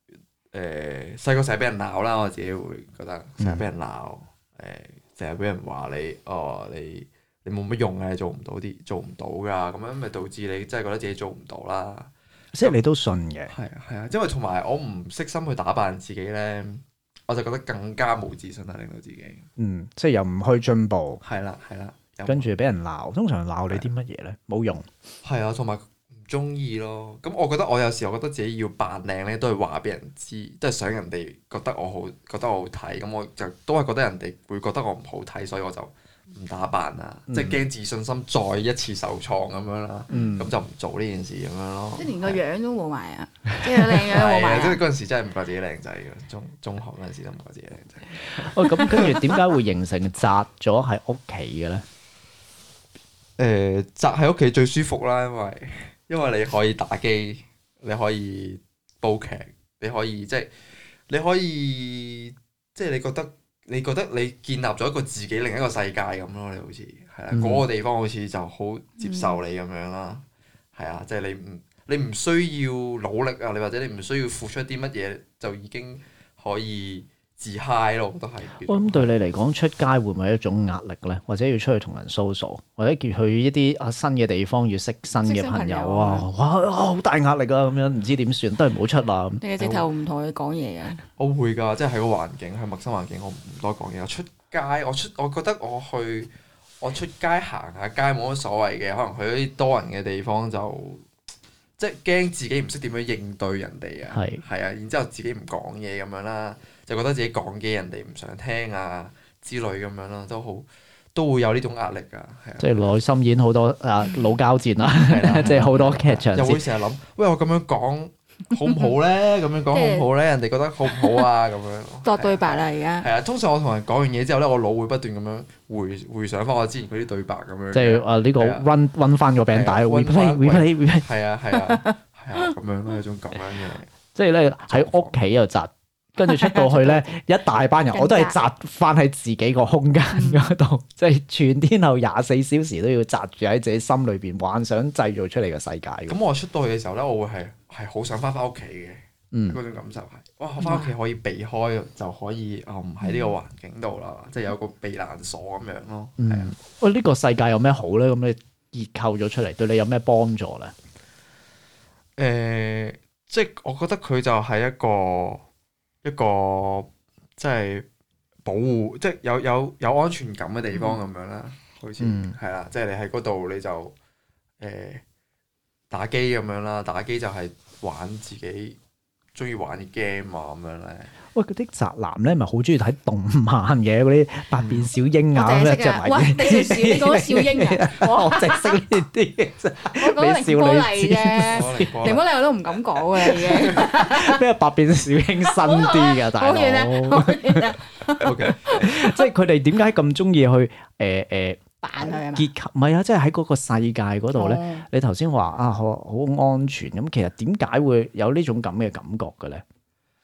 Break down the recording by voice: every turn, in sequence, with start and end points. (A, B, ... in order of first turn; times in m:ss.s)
0:00.5-0:12.1 A
0:03.4-0:03.6 B
0:12.5-0:13.5 B
0:13.5-0:19.5 A
0:19.6-0:21.2 B
0:21.2-0:22.5 A
0:22.2-0:24.9 B
0:25.2-0:42.4 A
0:37.3-0:37.6 B
0:40.1-0:40.5 B
0:42.0-0:44.8 C
0:44.0-0:49.4 A
0:48.3-0:51.8 B
0:53.4-1:00.5 A
1:01.1-1:10.2 A
1:07.3-1:07.6 B
1:09.0-1:09.4 C
1:10.8-1:19.1 A
1:18.6-1:29.4 B
1:25.1-1:26.3 C
1:29.4-1:31.0 C
1:29.6-1:29.8 A
1:31.2-1:41.0 A
1:41.8-1:52.9 A
1:44.1-1:44.4 B
1:52.6-1:56.6 B
1:55.0-2:08.7 A
1:59.7-2:00.1 C
2:02.0-2:03.1 C
2:07.7-2:11.0 B
2:09.5-2:13.9 A
2:11.5-2:12.5 C
2:14.1-2:26.2 B
2:14.7-2:15.2 A
2:16.2-2:17.1 C
2:17.9-2:18.4 C
2:20.1-2:20.5 C
2:26.1-2:36.6 A
2:29.3-2:29.6 B
2:30.6-2:30.9 C
2:36.2-2:40.7 B
2:42.2-2:45.4 A
2:46.0-2:47.9 A
2:48.5-2:53.9 A
2:52.0-2:52.4 B
2:54.6-2:55.0 A
2:55.9-2:58.8 A
2:59.4-3:01.1 A
3:01.3-3:12.2 B
3:04.6-3:04.9 A
3:05.3-3:08.8 C
3:09.9-3:14.4 C
3:11.4-3:12.3 A
3:13.2-3:17.8 B
3:15.4-3:19.2 C
3:18.2-3:18.9 A
3:18.8-3:29.6 B
3:21.8-3:22.5 C
3:24.3-3:24.9 C